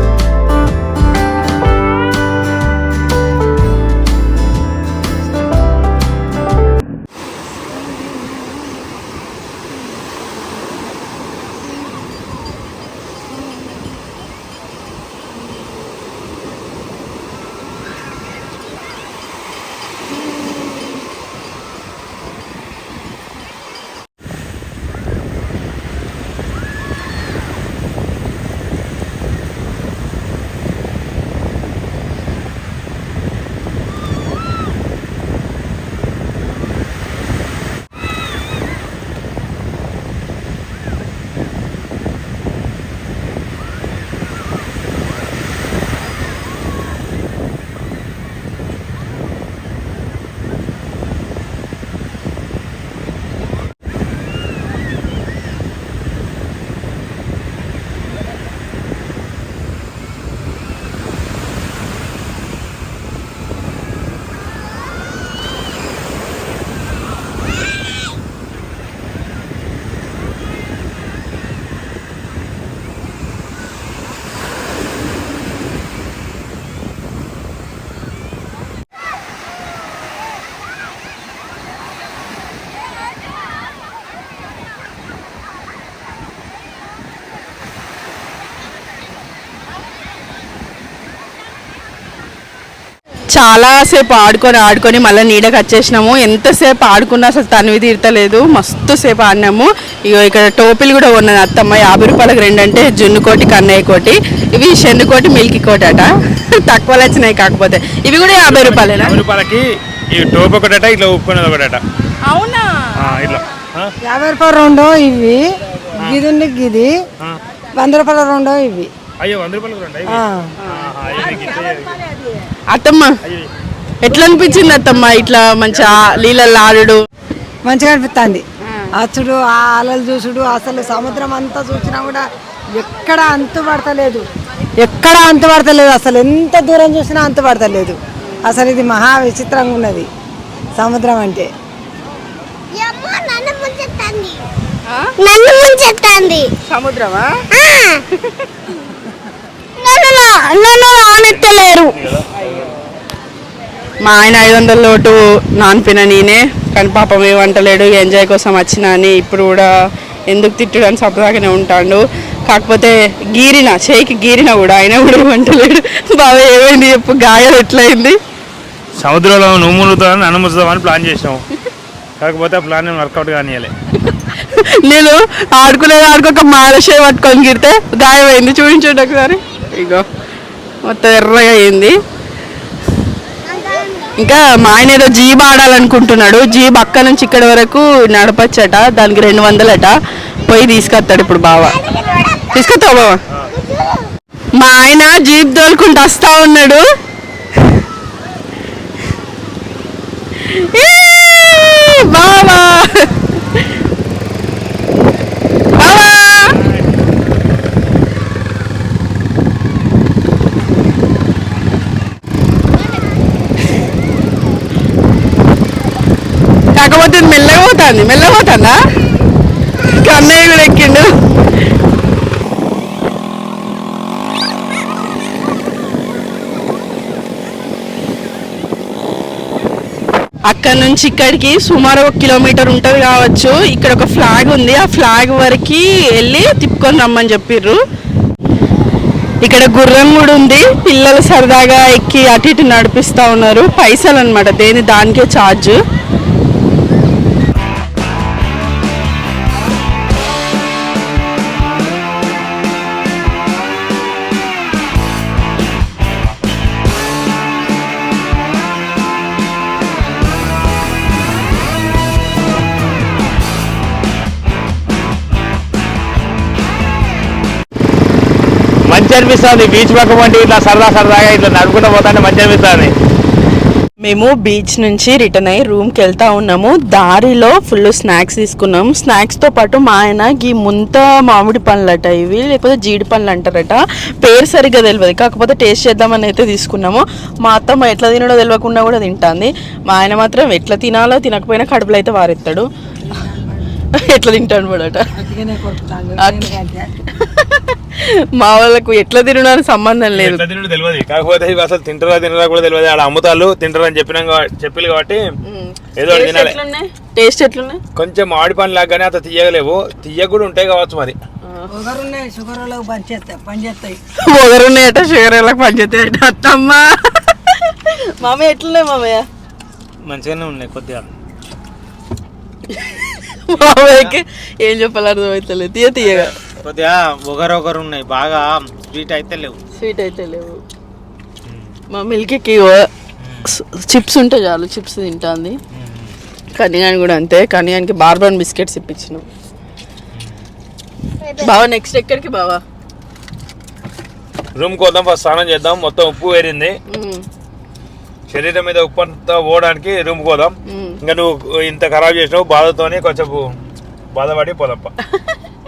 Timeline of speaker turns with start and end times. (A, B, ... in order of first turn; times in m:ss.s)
1:33.4-1:49.2 A
1:48.4-1:51.8 B
1:52.3-1:52.9 A
1:53.0-1:53.9 B
1:54.0-1:55.4 C
1:56.0-1:56.9 C
1:57.8-1:58.9 C
1:59.2-2:02.0 B
2:00.1-2:00.5 C
2:00.6-2:00.9 A
2:02.7-2:03.2 A
2:03.2-2:03.5 B
2:04.0-2:07.0 A
2:05.7-2:06.2 B
2:07.6-2:08.4 C
2:09.0-2:14.2 C
2:14.8-2:20.1 C
2:18.3-2:18.6 A
2:20.8-2:21.5 C
2:22.7-2:24.4 D
2:25.2-2:26.5 D
2:26.7-2:27.3 A
2:27.5-2:28.0 D
2:29.8-2:32.0 D
2:32.0-2:32.7 B
2:34.0-2:39.7 A
2:40.3-2:48.2 A
2:49.0-2:51.4 B
2:52.2-2:53.7 B
2:54.4-3:00.0 A
3:00.8-3:02.0 A
3:03.4-3:04.1 D
3:04.2-3:11.8 A
3:11.8-3:12.4 D
3:12.5-3:13.2 A
3:13.5-3:14.0 D
3:14.6-3:16.8 A
3:20.4-3:23.7 A
3:25.8-3:26.6 A
3:36.8-3:38.8 A
3:39.9-3:41.1 A
3:50.5-3:57.8 A
3:59.4-4:05.8 A
4:28.9-4:32.9 B
4:34.0-4:52.7 A
4:53.1-4:53.6 C
4:53.9-4:55.1 A
4:55.1-4:56.9 C
4:56.2-4:56.5 A
4:57.1-5:00.4 A
5:00.1-5:05.2 B
5:05.4-5:07.8 A
5:06.0-5:06.6 B
5:08.0-5:11.2 B
5:11.7-5:14.0 C
5:14.2-5:19.2 A
5:20.0-5:21.1 E
5:22.7-5:26.3 A
5:23.8-5:24.1 E
5:26.1-5:29.6 E
5:29.8-5:30.6 A
5:31.9-5:32.9 A
5:33.4-5:35.6 A
5:35.8-5:36.1 E
5:36.6-5:39.2 A
5:41.2-5:41.6 D
5:41.4-5:42.6 A
5:44.6-5:46.8 B
5:46.9-5:47.2 A
5:48.3-5:53.5 B
5:50.7-5:51.0 A
5:54.1-5:54.9 B